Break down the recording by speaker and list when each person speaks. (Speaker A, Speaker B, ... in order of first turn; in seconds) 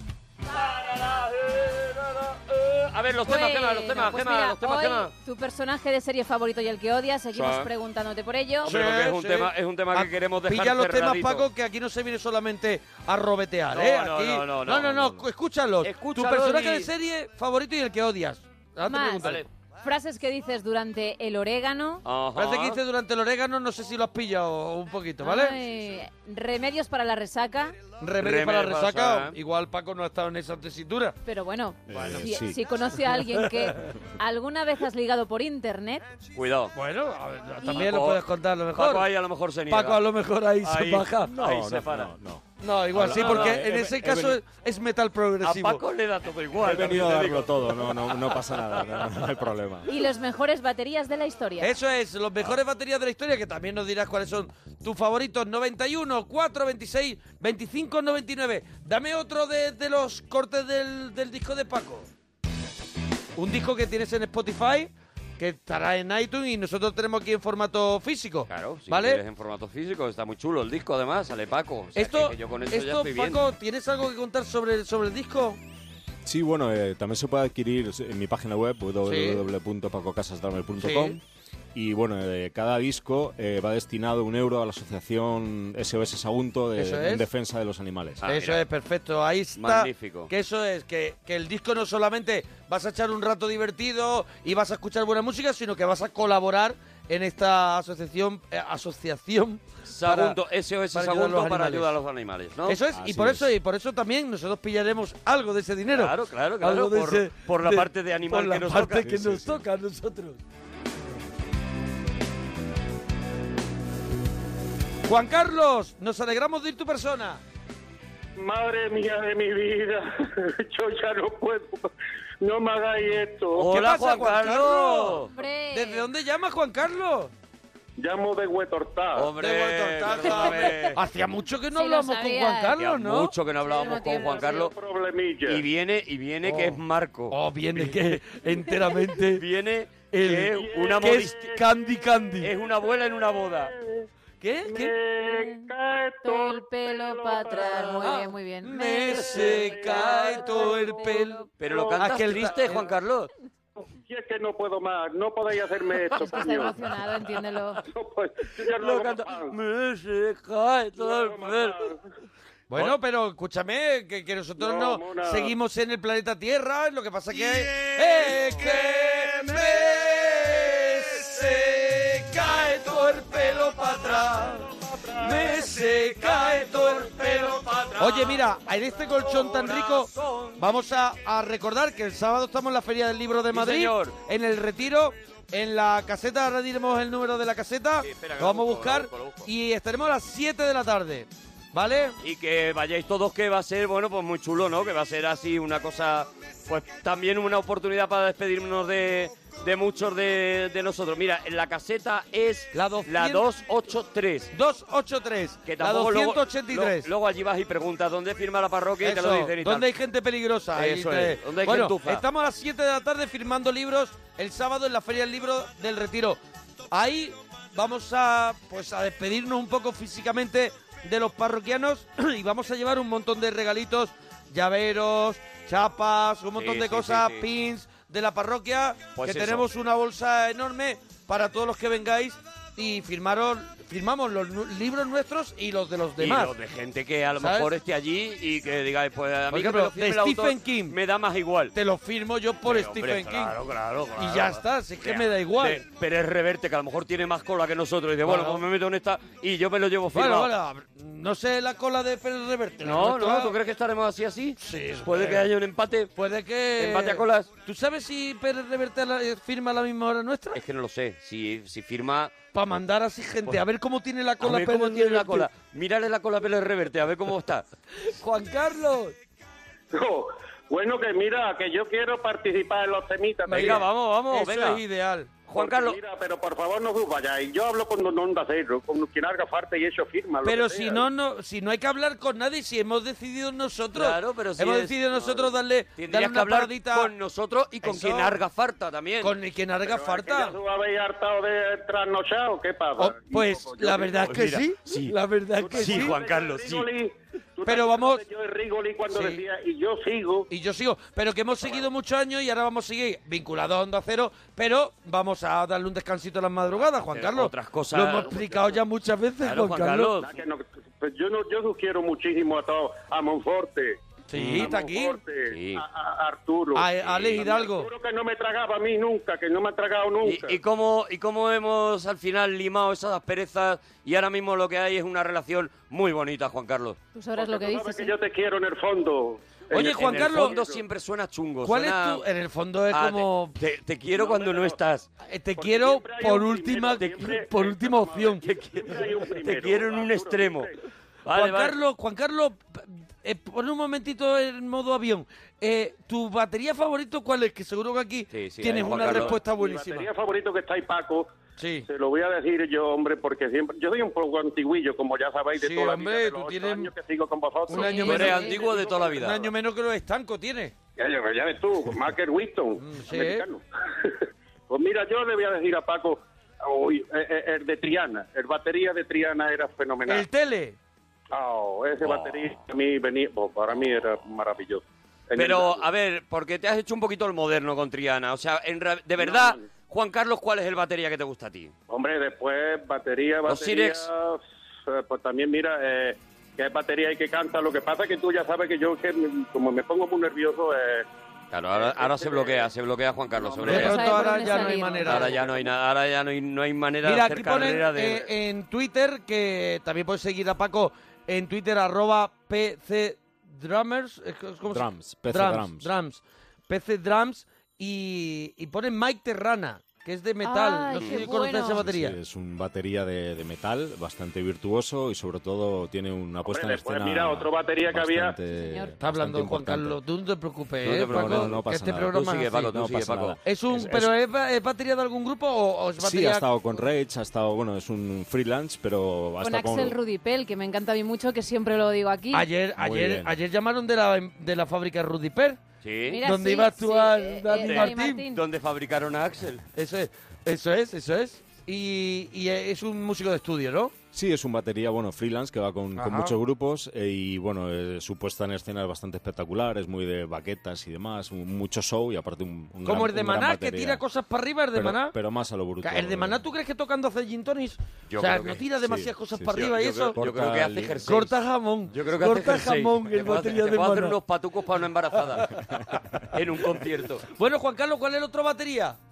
Speaker A: 0.5-5.1, 7.3-7.7, 8.6-11.4, 13.7-15.2, 15.8-16.9, 22.0-22.8, 28.2-29.3, 36.3-36.7, 37.6-40.0, 40.6-42.1, 43.0-43.6, 45.4-49.0, 68.5-73.4, 88.2-88.6, 89.5-90.3, 99.9-102.8, 105.9-109.1, 123.6-125.3, 129.1-131.0, 132.8-134.7, 135.5-138.1, 139.3-141.6, 142.4-143.7, 149.6-150.0, 151.6-153.3, 158.8-161.8, 177.5-178.5, 179.0-180.6, 183.5-184.2, 188.0-189.5, 192.2-204.5, 205.6-209.9, 210.8-212.2, 226.6-227.4, 229.2-229.7, 236.2-241.7, 242.6-250.5, 252.8-256.1, 256.8-257.5, 260.5-262.3, 264.4-267.6, 273.5-274.8, 275.5-276.0, 283.9-289.3, 294.2-295.1, 295.7-296.9, 307.1-308.6, 309.4-310.3, 314.4-314.7, 315.5-315.8, 317.0-317.4, 320.2-327.0, 329.7-332.2, 332.9-335.1, 339.2-340.7, 341.2-341.8, 348.3-349.4, 357.9-359.5, 372.0-372.5, 375.4-381.7, 383.5-384.1, 391.5-398.3, 410.9-411.3, 420.8-421.6, 422.1-423.4, 435.8-436.2, 437.5-439.6, 458.1-458.6, 459.5-461.3, 461.9-465.6, 466.3-467.2
Speaker B: 3.2-8.7, 18.9-22.0, 25.2-27.8, 31.2-36.0, 49.9-51.7, 125.3-126.1, 131.7-132.7, 133.6-134.6, 145.3-145.7, 146.2-149.7, 150.7-151.4, 156.1-157.8, 327.1-328.1, 357.8-358.6, 393.7-395.3, 410.4-411.8, 418.5-418.9, 429.4-432.4, 436.1-438.4
Speaker C: 8.6-19.4, 22.4-25.6, 28.0-31.2, 36.7-39.1, 39.7-41.3, 42.6-45.8, 51.6-62.1, 63.4-69.2, 71.9-75.6, 79.0-79.4, 80.8-81.2, 86.8-87.2, 88.2-100.4, 100.9-101.9, 102.7-110.4, 115.1-117.4, 123.7-127.3, 129.4-133.3, 136.4-136.8, 137.3-139.4, 140.1-142.5, 144.4-144.9, 148.0-151.4, 152.0-152.9, 162.7-192.2, 202.7-203.4, 204.5-207.1, 209.0-216.4, 216.9-236.5, 237.4-237.7, 239.5-241.0, 241.7-243.6, 244.2-245.8, 248.2-248.6, 250.1-253.5, 254.6-255.4, 256.1-260.6, 262.5-265.5, 268.1-269.1, 273.5-275.3, 280.4-287.1, 287.8-288.4, 289.2-290.6, 293.0-296.1, 297.6-298.2, 299.1-299.4, 300.5-310.2, 314.3-315.2, 316.7-317.9, 329.7-330.6, 331.6-333.5, 335.2-338.9, 341.3-350.1, 351.6-351.9, 355.6-356.9, 357.7-360.7, 362.8-363.4, 370.1-370.8, 393.6-395.4, 397.0-412.1, 419.0-422.7, 423.4-426.5, 432.3-435.6, 436.2-438.2, 439.8-443.9, 445.9-446.4, 452.8-455.2, 455.8-460.2, 461.1-464.2, 467.3-469.0
Speaker D: 31.9-32.6, 41.3-44.4, 46.6-49.9, 76.2-81.2, 81.7-88.2, 102.9-103.5, 108.9-109.6, 404.7-405.9, 411.8-420.0, 420.9-424.1, 426.0-430.0, 432.8-433.4, 444.1-454.0, 454.7-456.4, 458.8-461.1
Speaker E: 118.4-121.9, 122.4-123.7, 128.0-129.3, 134.4-135.6, 140.6-141.2, 143.3-144.1, 144.7-148.1, 149.4-150.7, 151.7-152.0, 153.8-156.9, 157.8-159.5, 161.0-162.0, 164.6-165.5, 174.8-175.3, 269.9-273.8, 275.5-281.1, 289.8-294.4, 295.6-300.5, 310.2-314.0, 314.5-320.6, 327.3-330.8, 334.1-334.8, 335.6-340.7, 348.7-351.3, 351.9-359.3, 361.0-370.2, 371.3-375.9, 379.2-379.6, 381.9-391.1, 391.7-392.7, 393.4-393.8, 395.4-395.7, 416.4-418.4